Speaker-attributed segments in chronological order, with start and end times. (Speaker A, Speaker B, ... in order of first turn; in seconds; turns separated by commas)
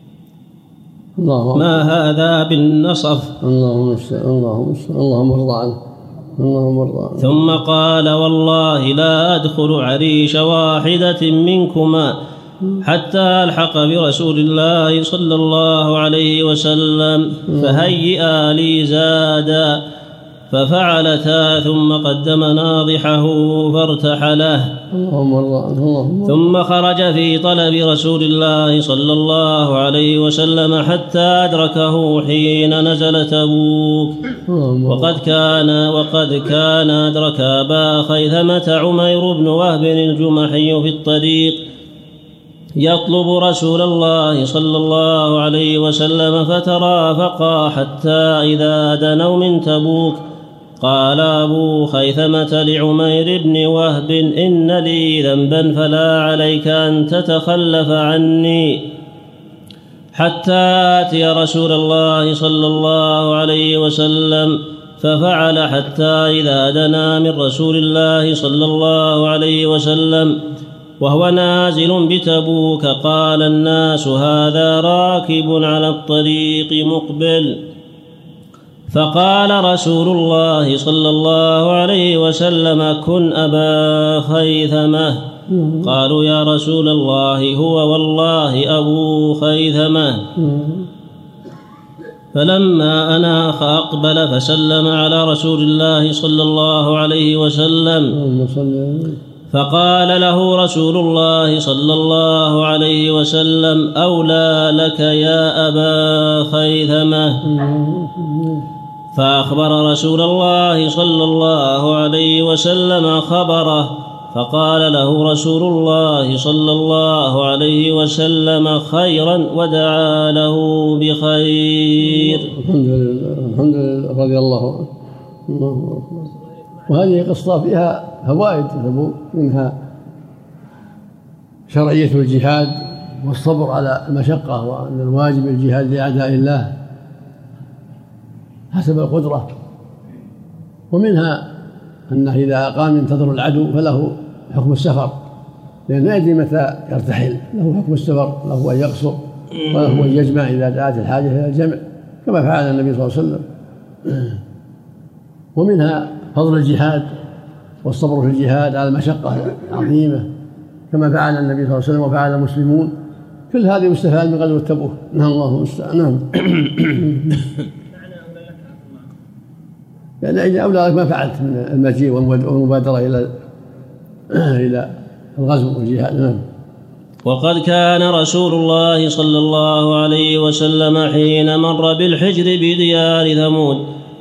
Speaker A: 1.2-1.8, Speaker B: 1.5-3.3, Speaker A: 3.4-5.8, Speaker A: 6.4-7.4, Speaker B: 7.2-12.1, Speaker B: 12.8-19.8, Speaker A: 17.5-17.9, Speaker B: 20.5-24.7, Speaker A: 24.9-26.4, Speaker B: 26.2-34.2, Speaker A: 34.5-35.2, Speaker B: 34.9-41.6, Speaker B: 42.8-50.2, Speaker B: 50.8-58.9, Speaker B: 60.1-70.4, Speaker B: 71.0-77.6, Speaker B: 78.9-85.2, Speaker A: 85.5-85.9, Speaker B: 85.8-90.3, Speaker A: 90.4-90.9, Speaker B: 92.3-98.2, Speaker A: 98.1-99.2, Speaker B: 99.5-107.4, Speaker A: 107.4-108.6, Speaker B: 109.1-122.5, Speaker A: 122.0-124.9, Speaker A: 125.5-126.3, Speaker A: 126.8-129.7, Speaker A: 131.7-136.7, Speaker A: 138.7-139.5, Speaker A: 140.9-141.4, Speaker A: 142.1-145.1, Speaker A: 145.9-153.4, Speaker A: 154.0-154.4, Speaker A: 155.5-157.1, Speaker A: 157.8-160.2, Speaker A: 160.9-162.9, Speaker A: 163.5-167.4, Speaker A: 170.2-173.3, Speaker A: 174.3-176.4, Speaker B: 177.2-183.8